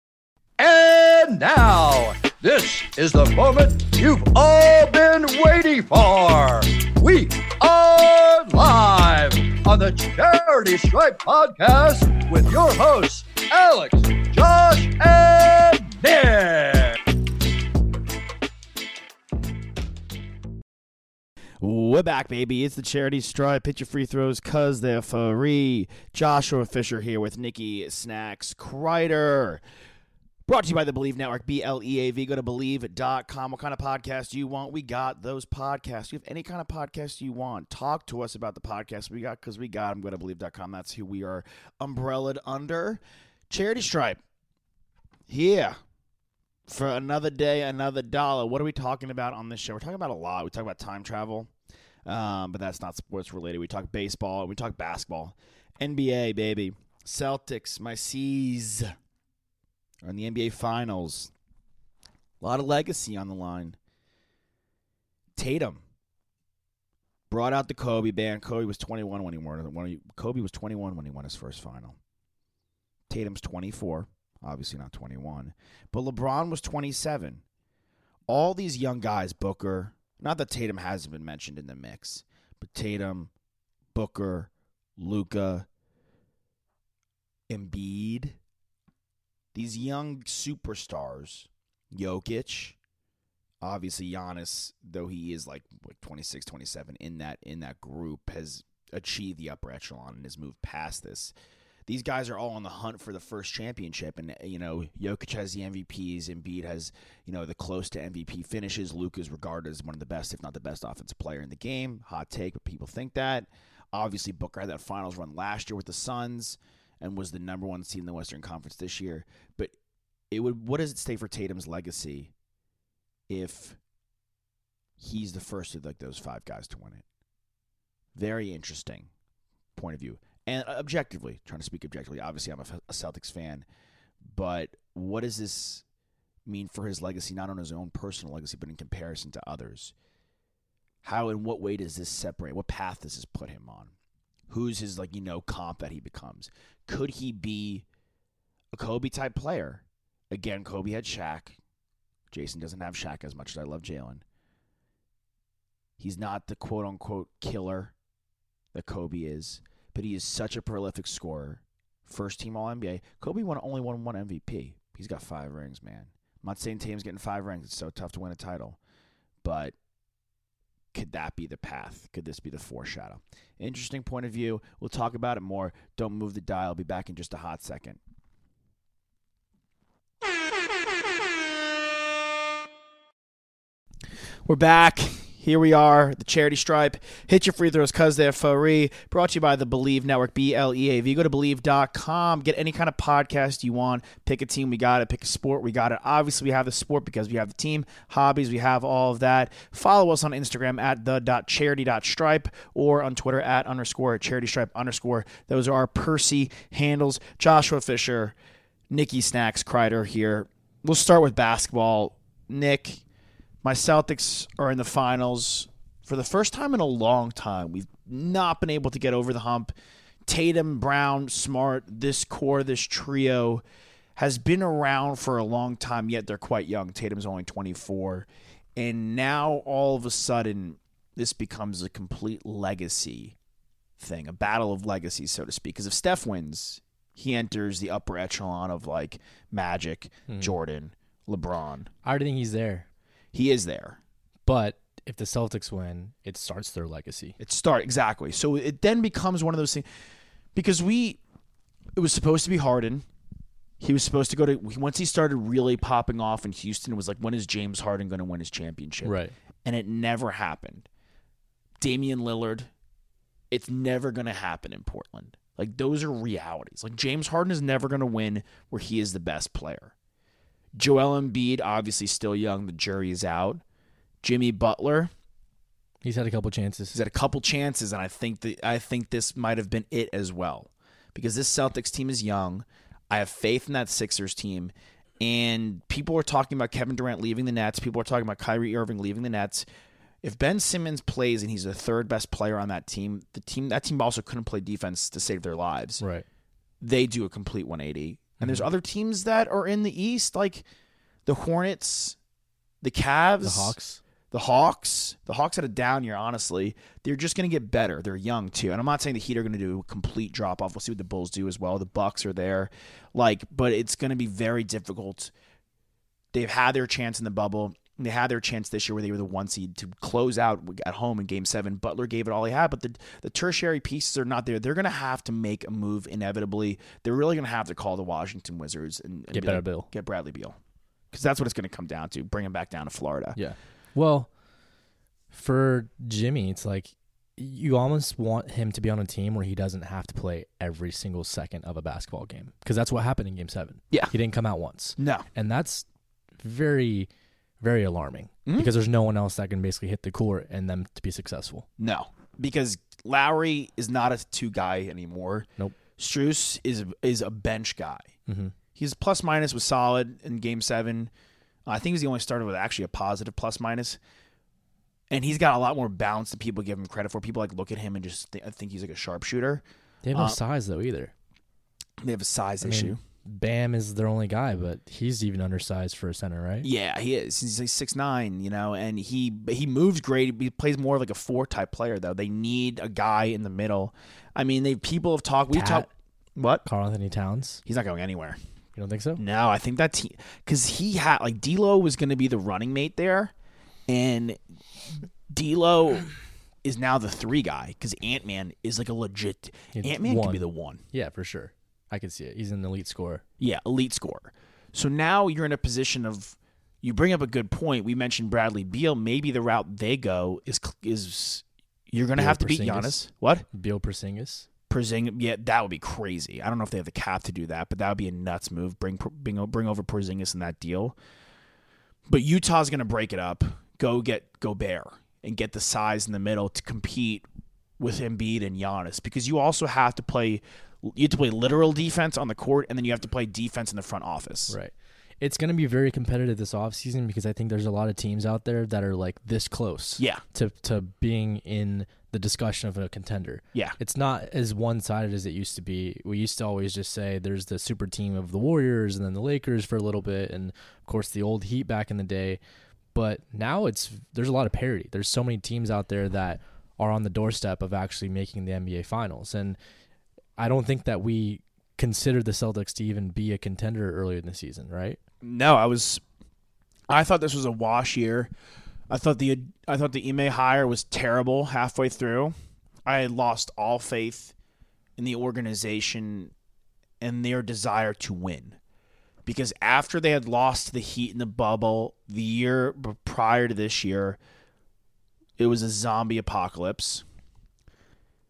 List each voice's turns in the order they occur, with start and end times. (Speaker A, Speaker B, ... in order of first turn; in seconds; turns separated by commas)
Speaker A: 0.6-17.0, Speaker B: 21.6-29.6, Speaker B: 30.5-44.2, Speaker B: 45.3-45.8, Speaker B: 46.7-51.5, Speaker B: 52.1-58.9, Speaker B: 60.0-61.3, Speaker B: 62.4-63.8, Speaker B: 65.4-65.8, Speaker B: 67.3-72.0, Speaker B: 73.1-77.4, Speaker B: 78.3-83.3, Speaker B: 83.9-85.7, Speaker B: 87.5-88.4, Speaker B: 89.5-92.8, Speaker B: 93.6-101.3, Speaker B: 101.9-119.7, Speaker B: 120.3-122.3, Speaker B: 123.3-123.8, Speaker B: 125.0-127.0, Speaker B: 128.2-129.1, Speaker B: 129.8-133.7, Speaker B: 134.3-135.8, Speaker B: 136.5-139.9, Speaker B: 141.0-143.9, Speaker B: 144.5-147.8, Speaker B: 148.7-151.6, Speaker B: 152.3-154.2, Speaker B: 156.0-157.9, Speaker B: 158.7-168.8, Speaker B: 169.4-169.8, Speaker B: 170.9-178.0, Speaker B: 184.4-208.3, Speaker B: 208.9-213.0, Speaker B: 213.6-219.7, Speaker B: 220.3-223.6, Speaker B: 224.2-233.3, Speaker B: 234.0-241.9, Speaker C: 240.3-240.6, Speaker C: 242.0-242.9, Speaker B: 243.3-244.0, Speaker C: 244.5-247.4, Speaker B: 247.4-249.8, Speaker B: 250.6-251.2, Speaker B: 252.0-253.1, Speaker B: 253.8-260.9, Speaker C: 259.0-259.3, Speaker B: 261.8-262.7, Speaker B: 263.5-269.9, Speaker B: 270.8-273.6, Speaker B: 274.2-275.1, Speaker C: 276.0-277.0, Speaker B: 276.9-289.7, Speaker B: 290.2-296.0, Speaker C: 296.0-296.2, Speaker B: 296.8-300.6, Speaker C: 298.4-298.7, Speaker B: 301.3-302.2, Speaker B: 302.8-303.8, Speaker C: 303.4-304.0, Speaker B: 304.3-315.3, Speaker B: 316.3-330.6, Speaker C: 329.3-329.9, Speaker B: 331.1-333.4, Speaker C: 333.4-334.3, Speaker C: 335.3-345.9, Speaker B: 345.0-345.3, Speaker C: 346.4-351.7, Speaker B: 348.5-348.7, Speaker B: 351.8-358.1, Speaker C: 358.3-358.6, Speaker B: 358.8-361.1, Speaker B: 361.7-364.0, Speaker B: 365.1-370.4, Speaker C: 370.0-371.1, Speaker B: 372.0-373.0, Speaker C: 372.6-376.7, Speaker B: 376.6-386.6, Speaker C: 385.5-385.9, Speaker C: 386.6-387.6, Speaker B: 387.7-388.4, Speaker C: 388.8-389.2, Speaker B: 389.2-393.3, Speaker B: 393.9-394.4, Speaker B: 395.3-396.1, Speaker B: 396.6-400.8, Speaker C: 399.7-403.2, Speaker B: 403.4-413.4, Speaker C: 412.1-413.0, Speaker C: 413.5-414.5, Speaker B: 414.7-421.0, Speaker B: 422.1-427.2, Speaker B: 427.8-434.6, Speaker C: 434.5-452.4, Speaker C: 452.9-459.6, Speaker C: 460.4-465.0, Speaker B: 465.2-466.0, Speaker B: 466.9-468.3, Speaker B: 468.9-472.3, Speaker B: 472.9-474.3, Speaker B: 475.0-476.3, Speaker B: 477.0-478.6, Speaker B: 479.3-484.2, Speaker B: 485.4-487.1